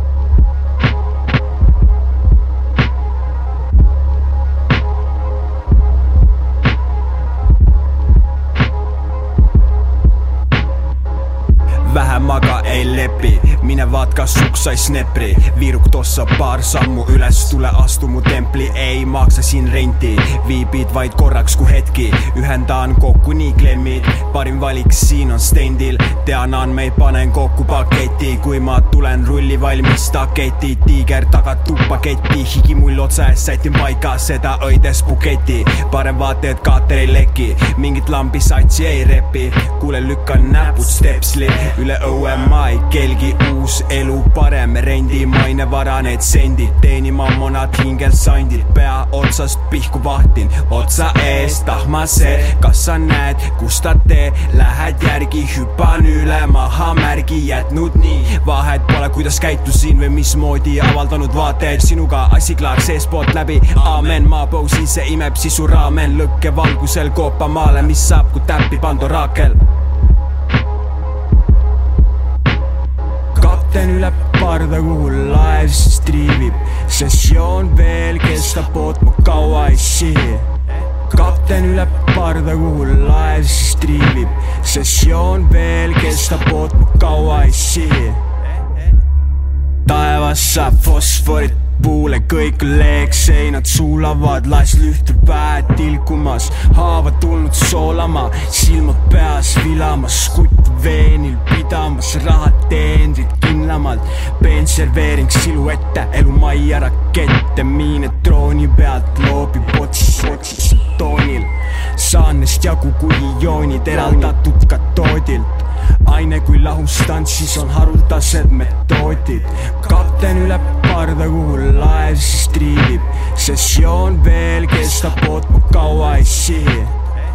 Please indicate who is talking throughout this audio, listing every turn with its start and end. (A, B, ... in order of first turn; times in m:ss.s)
0:11.8-1:09.6 A
1:13.3-1:20.5 A
1:21.0-1:28.2 A
1:29.8-2:07.0 A